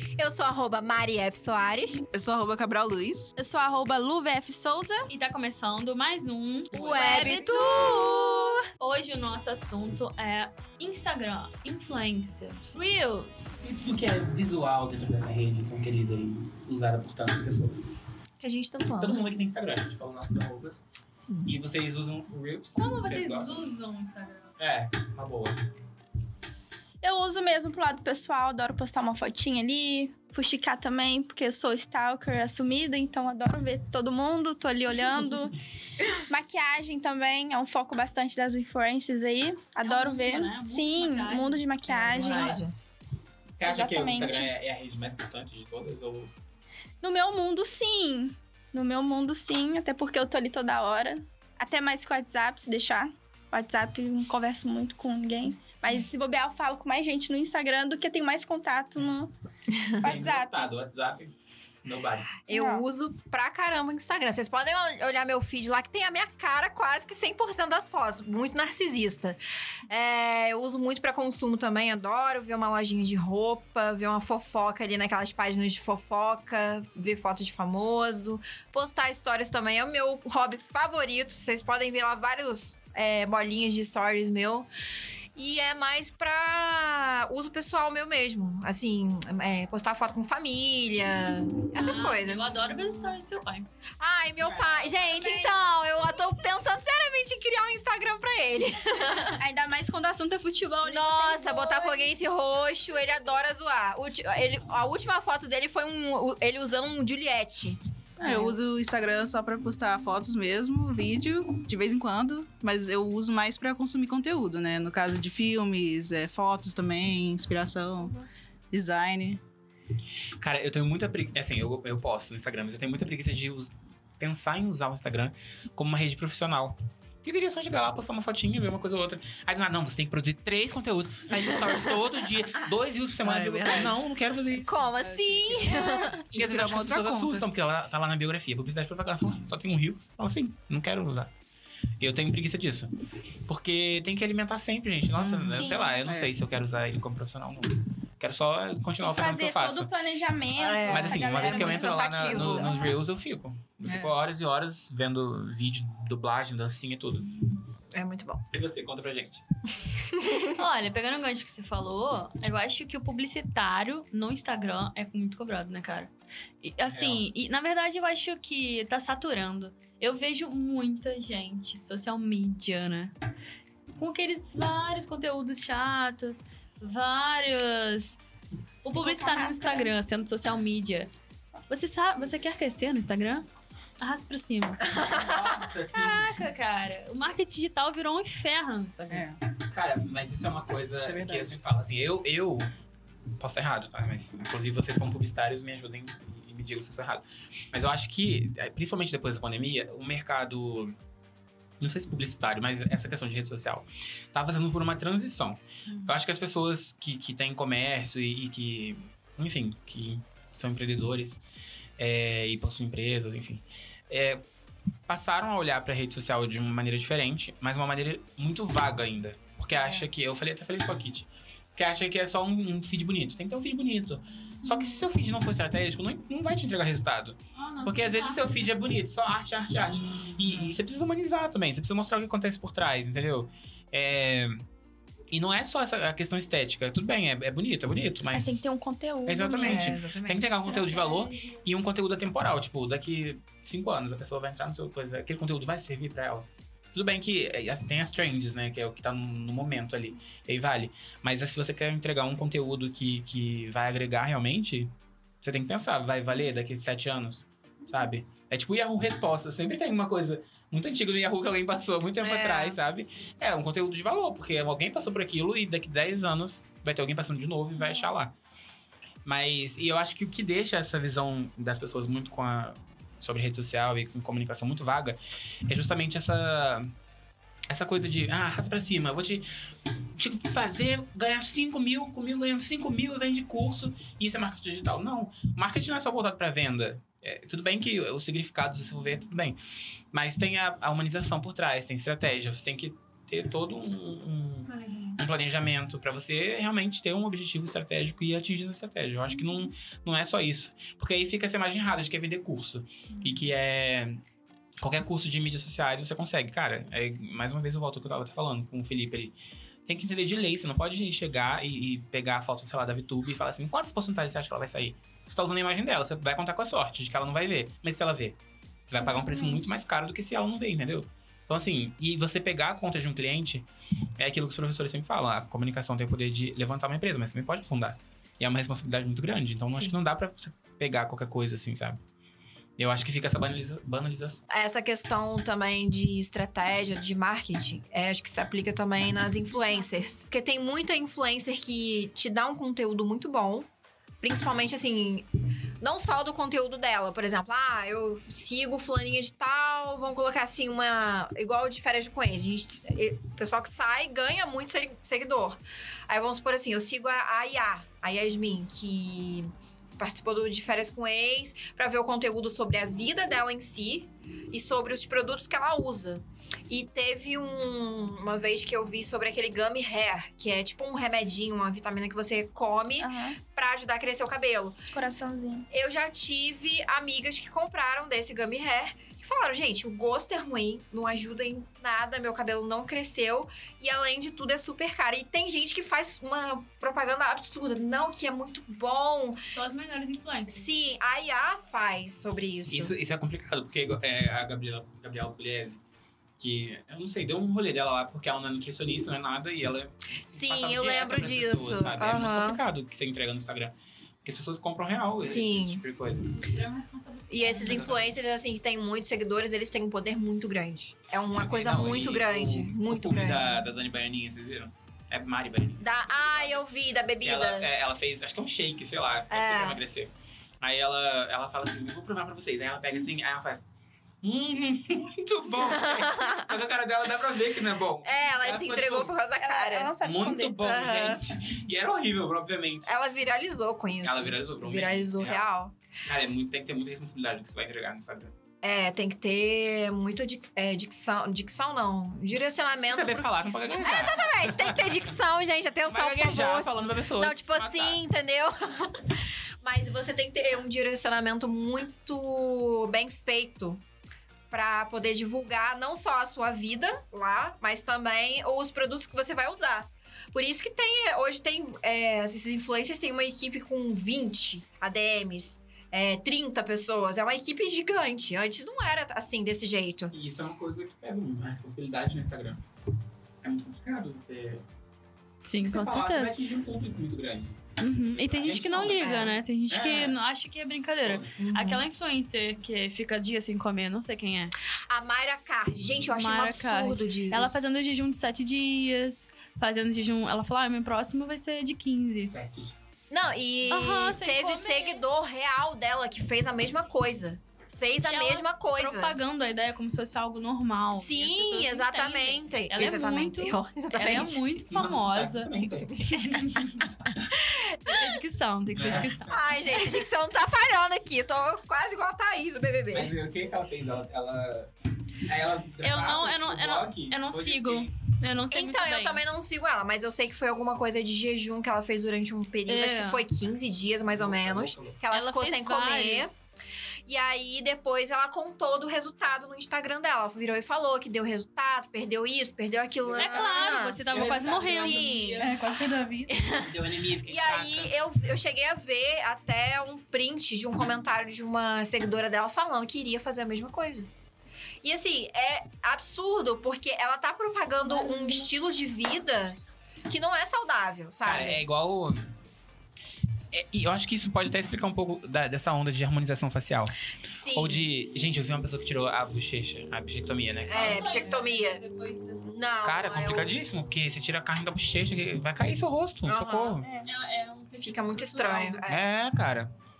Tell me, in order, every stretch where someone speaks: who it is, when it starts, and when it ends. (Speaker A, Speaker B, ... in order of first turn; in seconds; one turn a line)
Speaker A: 0.2-2.0
Speaker B: 2.1-3.3
Speaker C: 3.4-5.1
Speaker D: 5.1-7.1
Speaker A: 6.7-8.6
Speaker C: 6.7-8.6
Speaker E: 6.9-7.4
Speaker D: 8.8-13.8
Speaker E: 13.6-17.9
Speaker A: 18.4-19.2
Speaker E: 19.0-20.8
Speaker A: 21.2-21.5
Speaker E: 21.4-23.6
Speaker D: 22.7-24.5
Speaker E: 24.6-25.6
Speaker C: 27.0-35.5
Speaker C: 36.2-42.6
Speaker D: 39.8-42.6
Speaker A: 41.9-42.7
Speaker E: 43.6-46.3
Speaker C: 43.6-44.5
Speaker C: 47.0-59.3
Speaker C: 60.0-60.5
Speaker E: 60.0-62.4
Speaker A: 62.5-84.7
Speaker C: 62.5-62.8
Speaker A: 85.3-92.5
Speaker D: 91.7-93.7
Speaker A: 94.0-99.4
Speaker E: 94.4-95.3
Speaker C: 95.1-95.7
Speaker C: 99.3-102.1
Speaker A: 100.8-107.8
Speaker B: 108.2-118.2
Speaker C: 108.2-108.6
Speaker B: 118.7-119.4
Speaker E: 120.4-134.8
Speaker B: 133.2-137.5
Speaker A: 134.6-136.2
Speaker E: 136.3-141.3
Speaker E: 142.0-142.9
Speaker E: 143.5-149.9
Speaker B: 145.2-146.3
Speaker C: 145.5-146.0
Speaker C: 149.0-152.8
Speaker A: 150.6-152.9
Speaker E: 150.9-157.6
Speaker B: 153.8-154.2
Speaker A: 157.9-158.4
Speaker E: 158.5-159.4
Speaker A: 160.0-160.6
Speaker D: 160.3-173.1
Speaker E: 166.9-167.2
Speaker D: 173.9-178.2
Speaker D: 178.8-181.1
Speaker C: 178.9-179.9
Speaker D: 181.7-183.4
Speaker D: 184.0-184.8
Speaker A: 184.9-185.2
Speaker E: 184.9-186.4
Speaker D: 185.9-189.2
Speaker B: 189.1-189.4
Speaker E: 189.7-192.7
Speaker B: 191.0-191.6
Speaker E: 193.4-200.9
Speaker E: 201.8-211.4
Speaker E: 212.0-214.4
Speaker E: 215.1-234.6
Speaker D: 227.5-228.6
Speaker E: 235.3-238.6
Speaker C: 238.3-239.9
Speaker E: 239.2-254.9
Speaker A: 239.6-240.7
Speaker C: 240.9-241.3
Speaker E: 255.4-268.3
Speaker A: 262.2-262.8
Speaker E: 269.2-276.9
Speaker E: 277.7-289.6
Speaker E: 290.1-304.2
Speaker E: 304.8-309.3
Speaker E: 309.9-323.6
Speaker E: 324.2-332.0
Speaker E: 332.8-334.4
Speaker A: 334.5-343.7
Speaker D: 339.7-340.1
Speaker A: 344.2-345.2
Speaker A: 345.8-374.8
Speaker C: 373.0-373.4
Speaker C: 374.9-375.7
Speaker A: 375.7-389.4
Speaker D: 389.4-390.7
Speaker A: 390.5-392.9
Speaker E: 392.7-395.8
Speaker E: 396.4-406.4
Speaker A: 400.3-402.6
Speaker A: 405.2-405.8
Speaker D: 406.3-408.1
Speaker A: 407.3-413.6
Speaker E: 407.6-408.1
Speaker E: 411.3-416.6
Speaker A: 415.8-417.7
Speaker E: 417.2-420.1
Speaker A: 419.3-419.8
Speaker E: 420.6-423.6
Speaker E: 424.2-429.1
Speaker A: 425.6-426.5
Speaker A: 428.0-429.9
Speaker C: 429.4-430.6
Speaker E: 430.0-432.9
Speaker A: 430.6-431.2
Speaker A: 432.9-435.7
Speaker E: 434.0-435.5
Speaker E: 436.0-438.3
Speaker A: 438.6-453.8
Speaker E: 442.9-445.1
Speaker E: 445.9-448.0
Speaker A: 454.5-470.1
Speaker E: 470.1-472.6
Speaker E: 473.4-474.6
Speaker D: 475.4-476.4
Speaker E: 475.6-477.6
Speaker D: 477.8-484.5
Speaker E: 478.2-480.2
Speaker A: 478.8-479.4
Speaker E: 481.0-481.4
Speaker A: 481.4-481.8
Speaker A: 484.9-487.6
Speaker D: 486.1-492.3
Speaker E: 492.3-492.8
Speaker A: 493.1-499.1
Speaker D: 493.7-495.0
Speaker D: 498.0-505.5
Speaker A: 500.9-504.4
Speaker E: 504.7-507.2
Speaker A: 505.9-506.4
Speaker A: 507.3-508.2
Speaker D: 507.8-509.4
Speaker E: 508.7-509.9
Speaker A: 509.3-513.1
Speaker E: 512.9-517.9
Speaker D: 515.8-519.2
Speaker A: 518.5-526.3
Speaker D: 522.6-523.2
Speaker E: 524.1-525.0
Speaker D: 525.1-526.5
Speaker A: 527.1-535.5
Speaker E: 533.0-535.5
Speaker D: 533.2-535.1
Speaker B: 534.2-534.7
Speaker B: 535.4-536.4
Speaker A: 536.3-544.1
Speaker E: 536.4-538.0
Speaker A: 544.8-551.6
Speaker D: 547.8-548.5
Speaker E: 551.2-552.3
Speaker E: 553.5-561.4
Speaker A: 557.3-557.9
Speaker A: 560.7-561.8
Speaker D: 560.7-562.6
Speaker A: 562.4-563.5
Speaker E: 562.8-566.9
Speaker A: 566.2-566.8
Speaker C: 566.8-567.1
Speaker D: 567.0-568.8
Speaker A: 567.8-569.0
Speaker E: 568.9-569.7